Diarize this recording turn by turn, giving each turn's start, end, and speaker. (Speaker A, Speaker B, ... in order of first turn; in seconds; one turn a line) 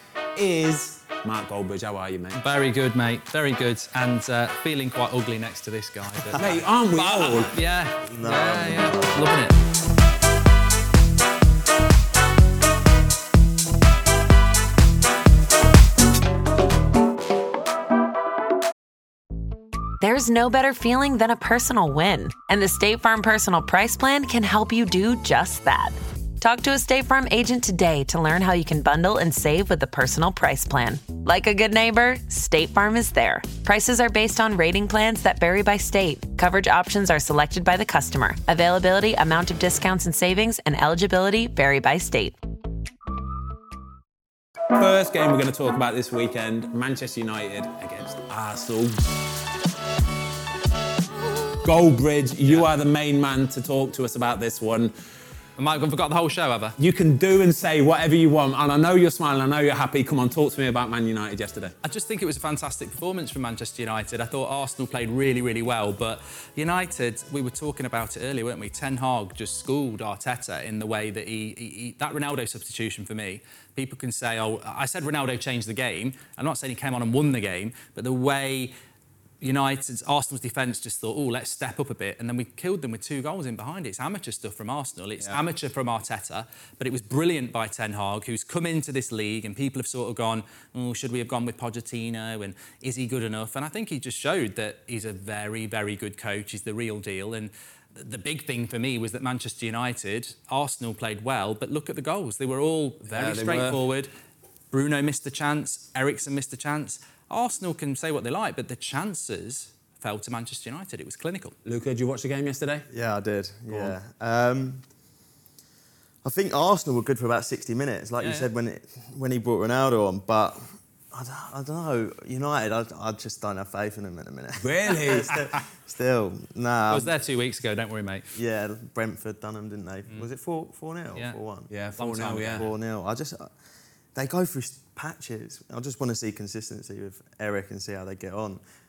Speaker A: 0.3-2.4
Speaker B: 2.4-9.6
Speaker A: 6.3-7.5
Speaker C: 8.1-9.3
Speaker D: 20.0-42.4
Speaker A: 44.7-49.0
Speaker A: 51.6-54.9
Speaker B: 55.6-56.8
Speaker A: 56.8-61.7
Speaker B: 61.8-78.7
Speaker B: 79.4-104.1
Speaker A: 103.1-103.8
Speaker B: 104.7-111.5
Speaker A: 111.6-112.9
Speaker C: 112.9-114.8
Speaker A: 113.7-113.9
Speaker C: 116.2-127.1
Speaker B: 118.2-118.5
Speaker A: 124.6-125.3
Speaker B: 126.9-128.3
Speaker C: 128.3-131.7
Speaker A: 131.7-132.7
Speaker B: 132.0-132.7
Speaker C: 132.5-133.5
Speaker C: 134.1-138.6